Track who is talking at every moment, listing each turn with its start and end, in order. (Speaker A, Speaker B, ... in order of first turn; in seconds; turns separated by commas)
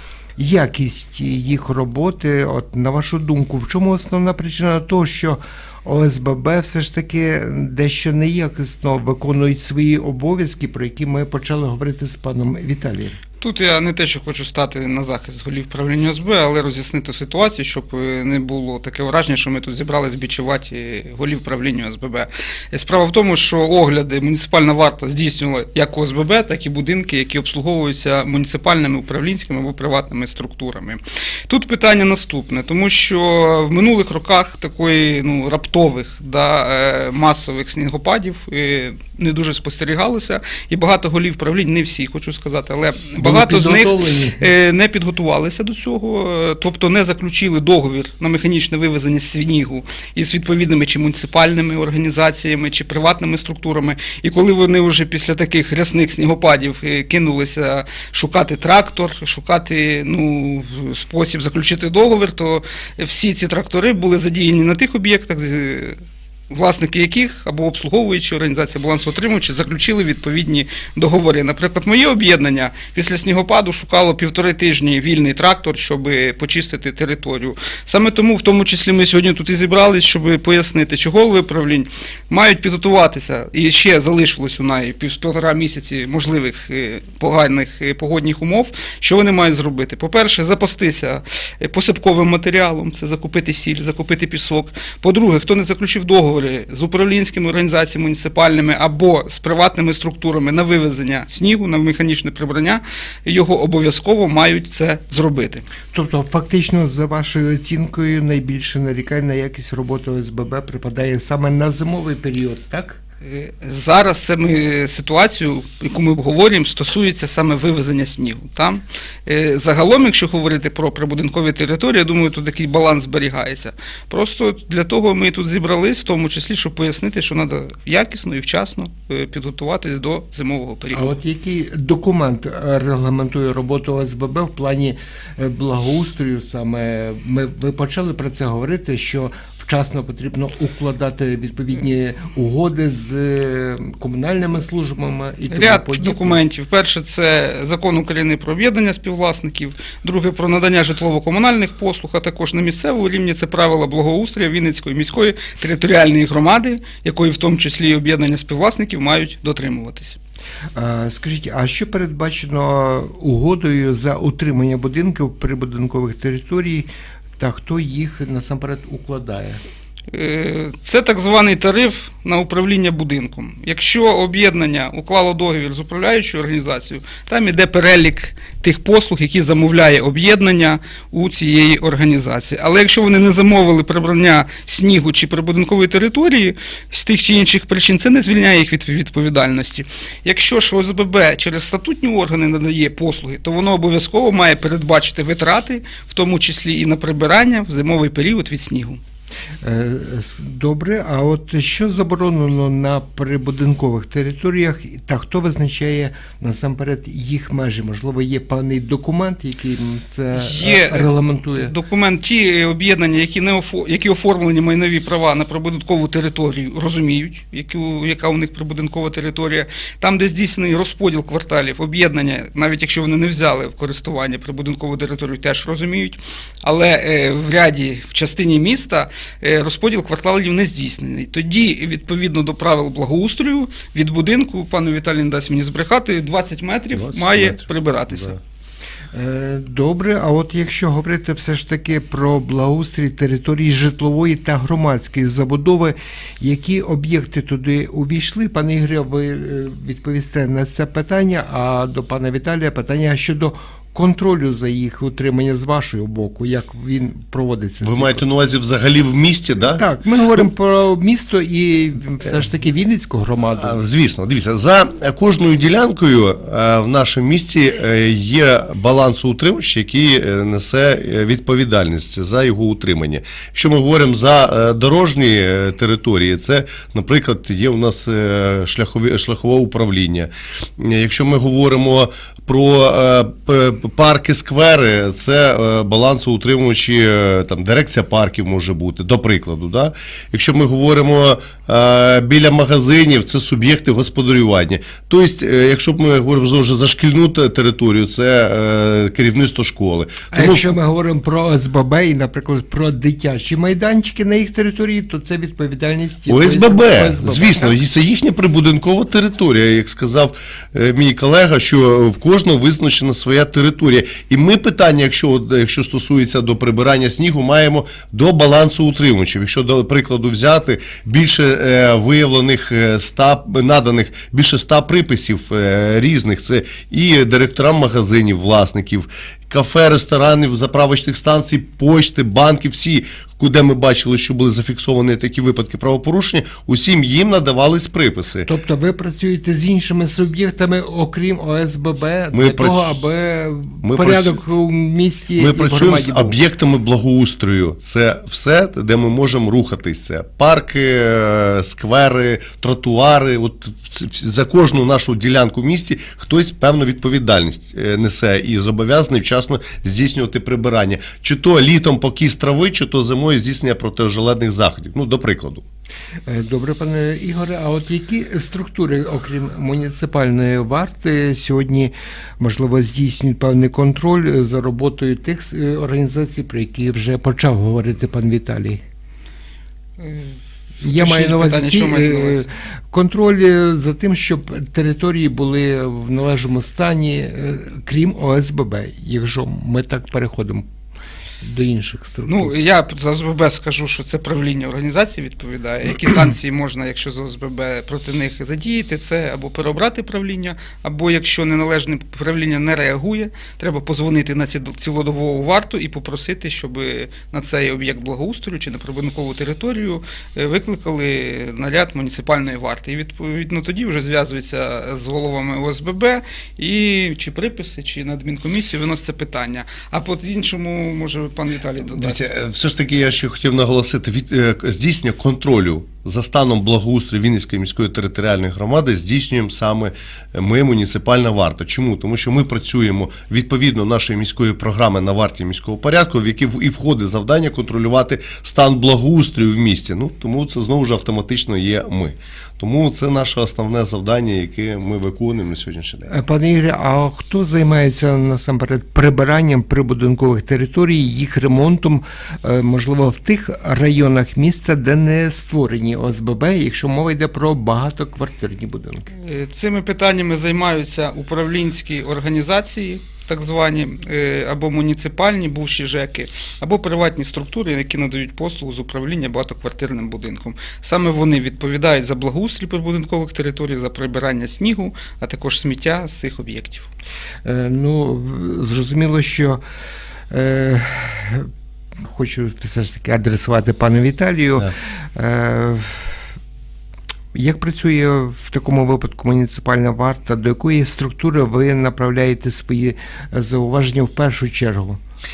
Speaker A: 0.4-13.2, Speaker B: 13.4-66.0, Speaker A: 43.2-44.5, Speaker B: 66.5-105.6, Speaker A: 105.9-113.0, Speaker B: 113.2-131.2, Speaker A: 130.9-146.4, Speaker B: 145.5-160.2, Speaker A: 160.8-169.6, Speaker B: 170.1-199.0, Speaker A: 199.6-211.7, Speaker B: 210.3-238.4, Speaker C: 236.9-238.4, Speaker A: 239.1-258.2, Speaker C: 257.8-259.8, Speaker A: 259.7-263.8, Speaker C: 263.6-300.7, Speaker A: 300.3-307.8, Speaker C: 306.3-338.5, Speaker A: 338.4-346.4, Speaker C: 342.3-343.0, Speaker C: 343.8-344.4, Speaker C: 345.4-365.6, Speaker A: 366.3-378.8, Speaker B: 380.0-382.5, Speaker A: 380.8-390.6, Speaker A: 391.4-392.5, Speaker B: 392.2-422.2, Speaker C: 421.8-446.1, Speaker A: 446.1-459.1, Speaker B: 459.1-476.9, Speaker A: 477.4-479.6, Speaker A: 480.3-481.5, Speaker A: 482.0-486.1, Speaker A: 487.3-495.0